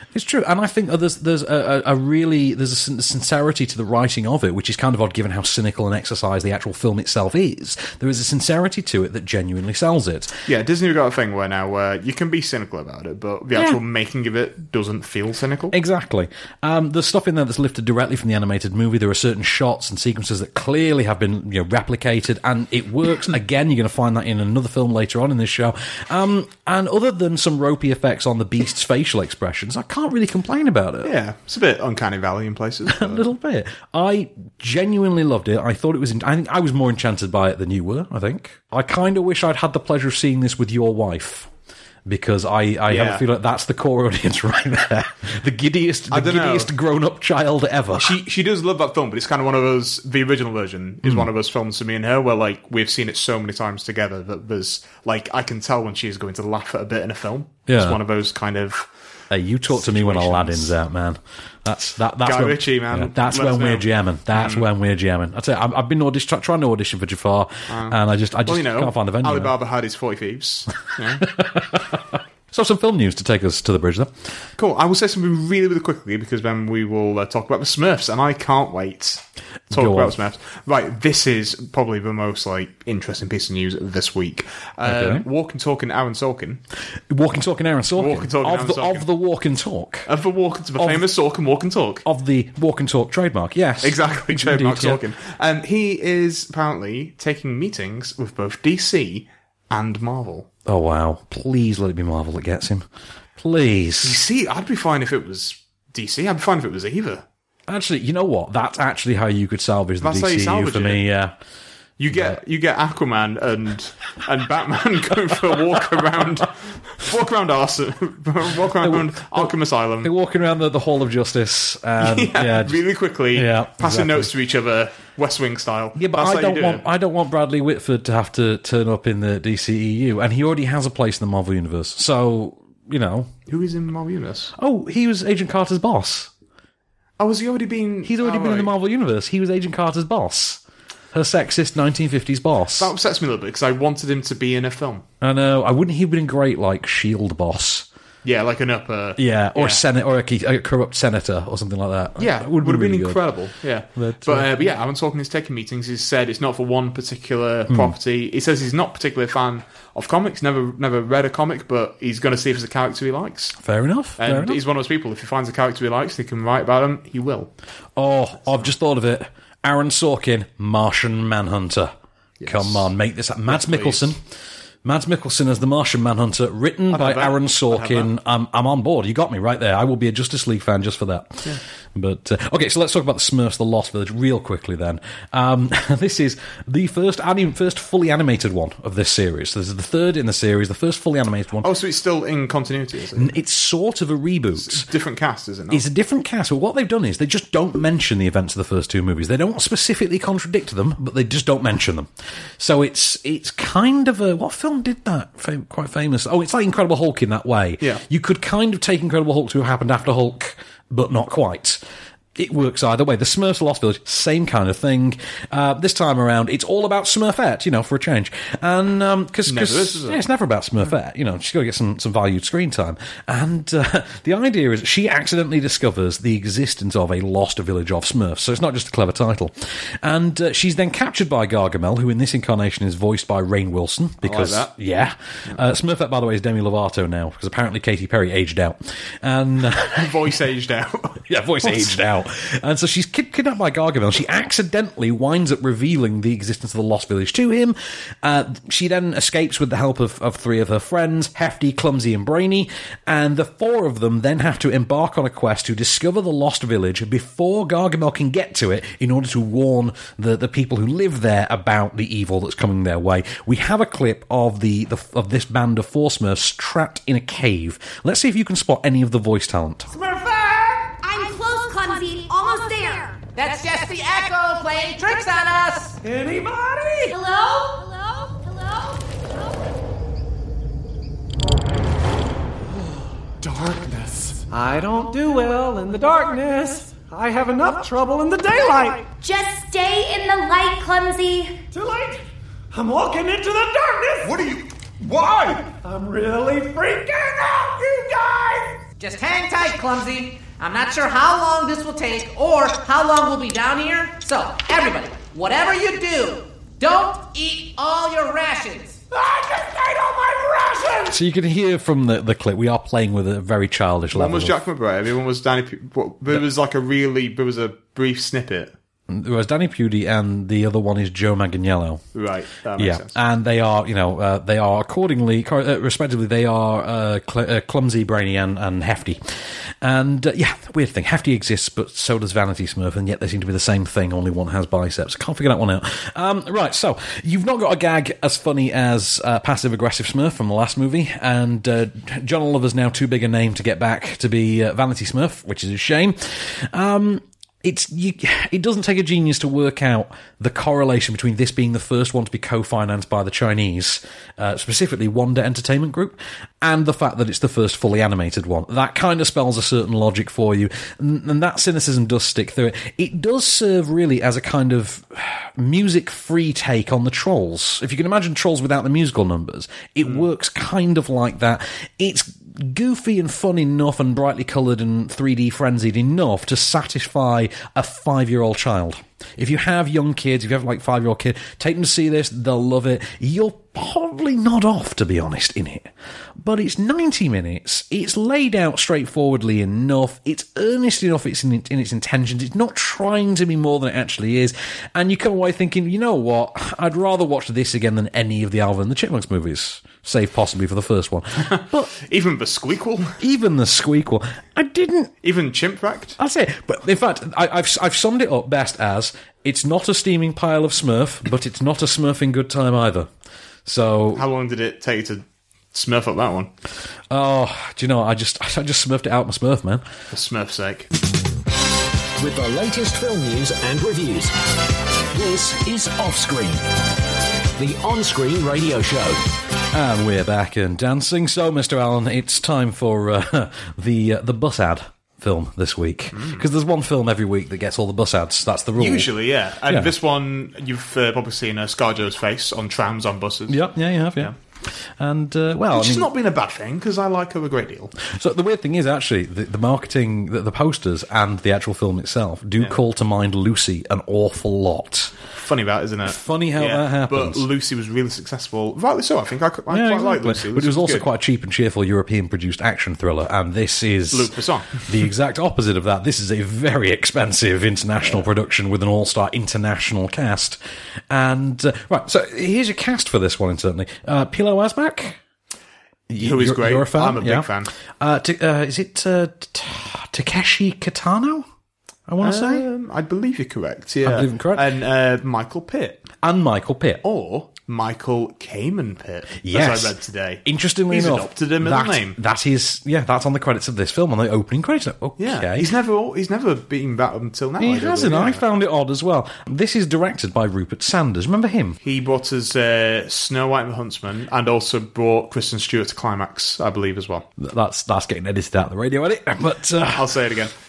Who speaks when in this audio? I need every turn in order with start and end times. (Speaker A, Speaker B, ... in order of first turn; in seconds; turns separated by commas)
Speaker A: 0.1-10.3, Speaker B: 10.5-15.7, Speaker A: 15.7-31.1, Speaker B: 31.0-33.2, Speaker A: 32.9-41.5, Speaker A: 42.1-48.1, Speaker B: 42.9-43.2, Speaker B: 46.1-46.7, Speaker B: 47.9-58.9, Speaker A: 57.7-58.0, Speaker A: 59.3-69.5, Speaker B: 59.7-60.7, Speaker B: 62.2-64.6, Speaker B: 67.7-71.2, Speaker A: 71.3-74.1, Speaker B: 74.6-86.6, Speaker A: 79.7-80.1, Speaker A: 84.8-85.2, Speaker A: 87.1-90.1, Speaker B: 88.0-89.0, Speaker B: 90.1-92.0, Speaker A: 90.8-91.0, Speaker A: 92.0-95.0, Speaker B: 93.8-100.5, Speaker A: 100.7-102.8, Speaker A: 103.4-104.2, Speaker B: 104.0-107.2, Speaker A: 107.7-111.3, Speaker B: 110.0-111.0, Speaker B: 112.0-120.1, Speaker A: 112.1-112.4, Speaker A: 118.8-122.8, Speaker B: 122.0-126.8, Speaker A: 123.3-124.3, Speaker A: 126.0-133.3, Speaker B: 133.5-134.5, Speaker A: 134.6-136.3, Speaker B: 137.2-138.7, Speaker A: 138.0-140.6, Speaker A: 141.1-142.9, Speaker B: 142.8-145.0, Speaker A: 145.2-147.9, Speaker B: 148.2-149.8, Speaker A: 149.2-153.2, Speaker B: 152.2-163.6, Speaker A: 153.9-154.6, Speaker A: 157.7-157.9, Speaker A: 163.6-164.6, Speaker B: 164.2-167.5, Speaker A: 168.0-171.9, Speaker B: 172.4-172.9, Speaker A: 172.4-174.2, Speaker B: 173.5-174.1, Speaker A: 174.8-191.7, Speaker B: 176.9-178.1, Speaker B: 191.6-193.3, Speaker A: 193.2-194.8, Speaker B: 194.6-195.8, Speaker A: 195.7-211.8, Speaker A: 212.3-240.1, Speaker B: 219.5-220.2, Speaker B: 234.2-234.7, Speaker B: 239.9-242.0, Speaker A: 241.3-269.9, Speaker C: 269.9-270.9, Speaker D: 271.0-273.2, Speaker E: 273.3-275.9, Speaker C: 276.0-277.1, Speaker D: 277.1-279.0, Speaker C: 282.7-289.1, Speaker D: 289.2-291.6, Speaker C: 291.7-298.8, Speaker E: 299.0-309.0, Speaker C: 309.1-311.1, Speaker A: 311.1-314.6, Speaker B: 314.1-318.7, Speaker A: 319.1-322.1, Speaker B: 322.1-323.1, Speaker A: 322.8-401.9, Speaker B: 401.5-403.2, Speaker A: 403.2-405.1, Speaker B: 405.2-406.2, Speaker A: 406.2-413.1, Speaker A: 413.6-414.2, Speaker B: 414.1-416.5, Speaker A: 417.1-419.8, Speaker B: 420.1-420.9, Speaker F: 422.2-424.3, Speaker F: 425.1-426.6, Speaker F: 427.6-429.2, Speaker A: 429.7-439.1, Speaker B: 436.1-436.4, Speaker B: 438.8-443.6, Speaker A: 443.5-446.1, Speaker B: 445.7-447.9, Speaker A: 448.0-455.1, Speaker B: 455.4-461.1, Speaker A: 456.1-457.4, Speaker A: 459.7-470.6, Speaker B: 464.1-464.9, Speaker A: 471.1-475.2, Speaker A: 476.1-481.5, Speaker B: 476.2-477.7, Speaker A: 482.1-482.6, Speaker B: 482.2-486.1, Speaker A: 484.0-484.6, Speaker A: 486.2-487.0, Speaker B: 487.0-492.2, Speaker A: 489.4-495.7, Speaker B: 495.2-498.4, Speaker A: 497.6-501.8, Speaker B: 501.8-507.3, Speaker A: 507.4-510.1, Speaker B: 509.9-510.5